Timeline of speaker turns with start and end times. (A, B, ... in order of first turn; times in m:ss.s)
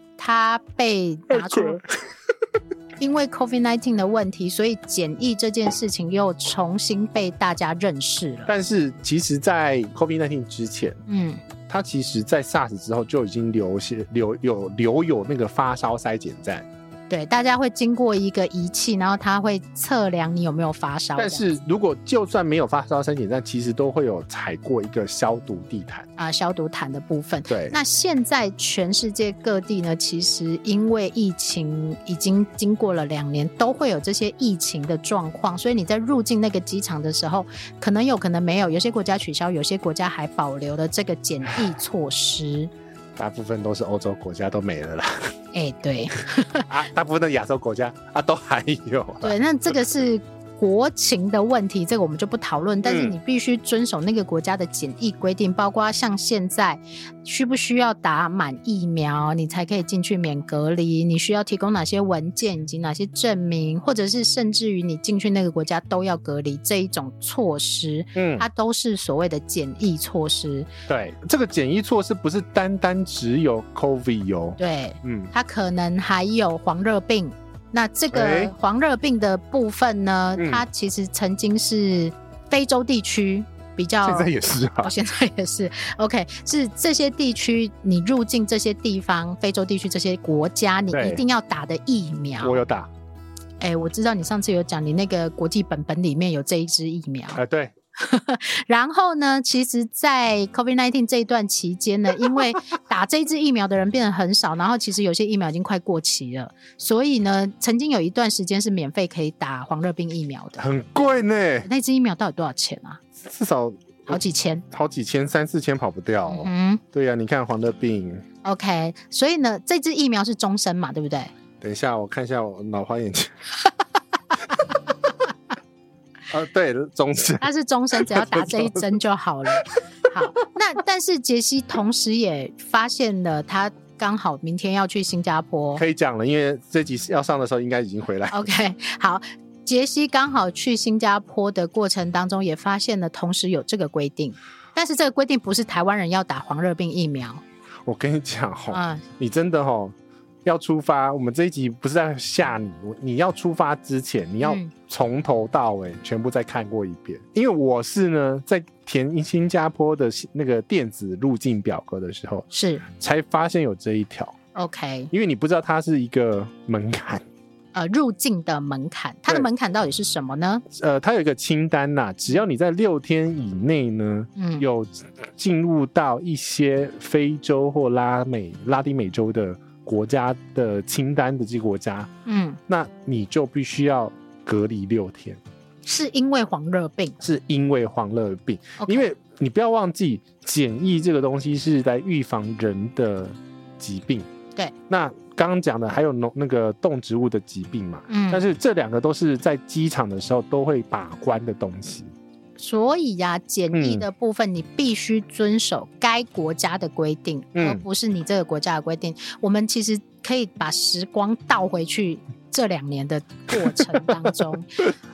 0:00.2-0:01.8 A
0:01.3-0:01.9 B
0:03.0-0:08.5 A
0:08.5-0:11.0 B
0:11.1-0:11.4 A
0:11.7-0:16.6 B
0:17.1-0:21.5 A
0:21.2-0:26.1 B
0:26.2-0:42.7 A
0:27.5-0:27.8 B
0:43.2-0:45.3 B
0:45.5-0:46.7 A
0:46.6-0:49.4 B
0:49.2-1:10.7 A
0:52.8-0:53.1 B
1:08.1-1:08.5 B
1:10.9-1:15.3 B
1:14.6-1:32.6 A
1:18.1-1:18.5 B
1:20.4-1:20.6 B
1:24.0-1:24.9 B
1:30.9-1:31.2 B
1:32.4-1:32.9 B
1:33.6-1:37.4 A
1:37.3-1:37.7 B
1:38.0-1:50.6 A
1:50.6-1:51.7 B
1:51.6-1:53.0 A
1:53.2-1:54.2 B
1:54.1-1:54.6 A
1:54.7-1:58.2 B
1:56.3-1:56.8 A
1:58.4-2:01.3 A
2:01.6-2:03.4 B
2:06.3-2:08.8 B
2:07.4-2:15.8 A
2:15.7-2:18.4 B
2:18.3-2:27.4 A
2:27.8-2:44.3 B
2:28.7-2:29.0 A
2:34.4-2:34.7 A
2:42.5-2:42.8 A
2:44.5-2:45.1 A
2:45.1-2:47.2 B
2:47.7-2:50.6 A
2:50.7-3:02.1 B
2:54.4-2:54.6 A
3:02.2-3:02.6 A
3:02.7-3:05.4 B
3:05.8-3:07.2 A
3:07.2-3:14.3 B
3:08.8-3:09.1 A
3:14.9-3:22.1 B
3:18.1-3:18.4 A
3:22.6-3:34.8 A
3:23.7-3:24.0 B
3:27.5-3:27.8 B